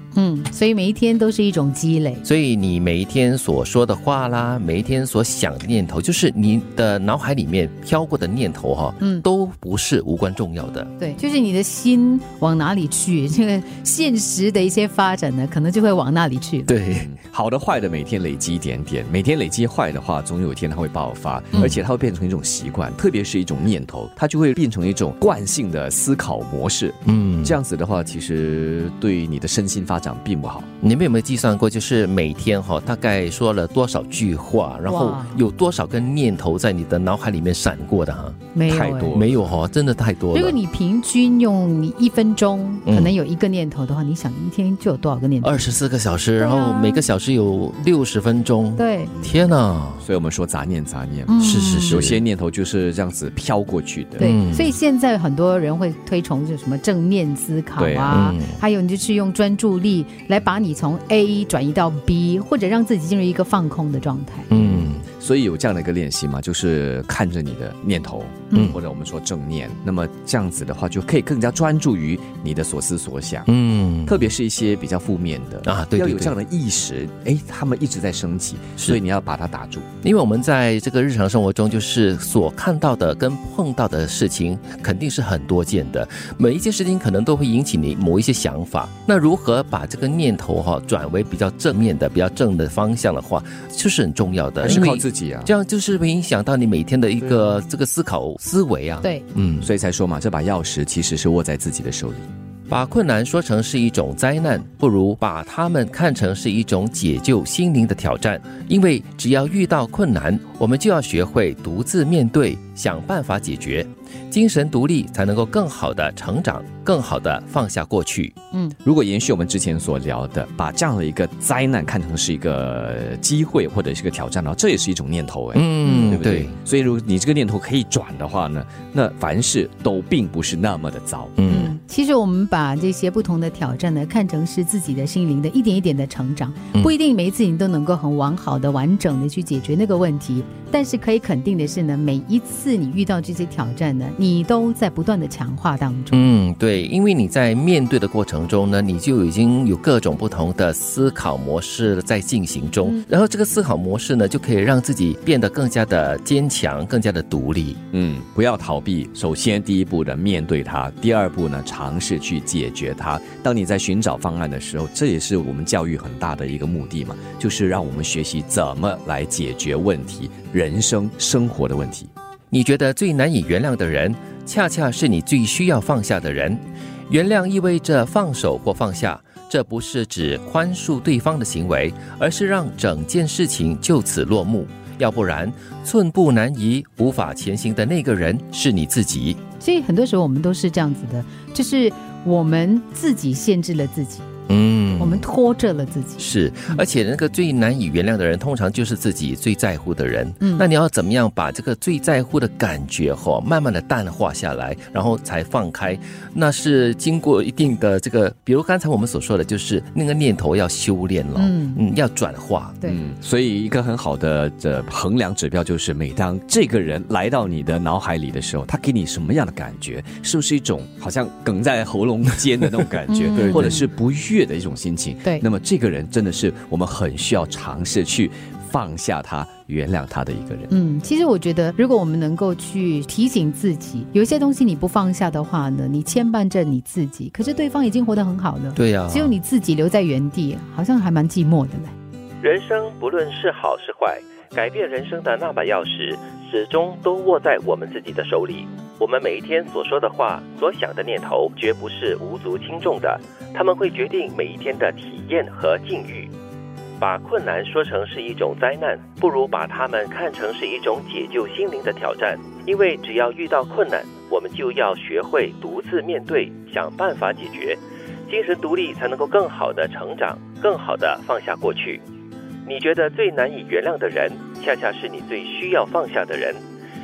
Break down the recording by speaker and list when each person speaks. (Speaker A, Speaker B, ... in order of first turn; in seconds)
Speaker A: 0.1-2.2, 9.0-9.2, 11.0-16.7, 34.9-35.4, 38.5-39.2, 40.3-45.7, 46.4-47.0, 48.8-49.1, 51.2-52.0, 54.2-64.5, 125.8-126.2, 131.5-146.3, 189.6-194.3, 195.0-196.8, 211.4-211.8, 223.1-223.9, 230.7-241.9
Speaker B: 2.2-10.9, 16.7-17.1, 27.1-27.6, 30.8-38.4, 39.1-40.6, 42.9-43.1, 45.4-50.0, 51.4-52.2, 54.2-54.7, 58.1-58.6, 64.5-65.0, 73.5-74.3, 75.6-76.3, 80.0-99.7, 102.7-118.3, 125.5-126.5, 131.4-131.7, 146.1-157.8, 172.5-189.4, 194.5-195.2, 196.2-212.8, 238.8-239.3, 242.4-256.3, 257.0-272.0, 272.6-276.6
Speaker C: 16.9-30.7, 38.6-39.5, 50.0-54.3, 57.8-58.3, 64.5-73.5, 74.0-79.8, 94.6-95.5, 99.6-102.3, 118.8-131.3, 157.9-172.1, 212.8-230.7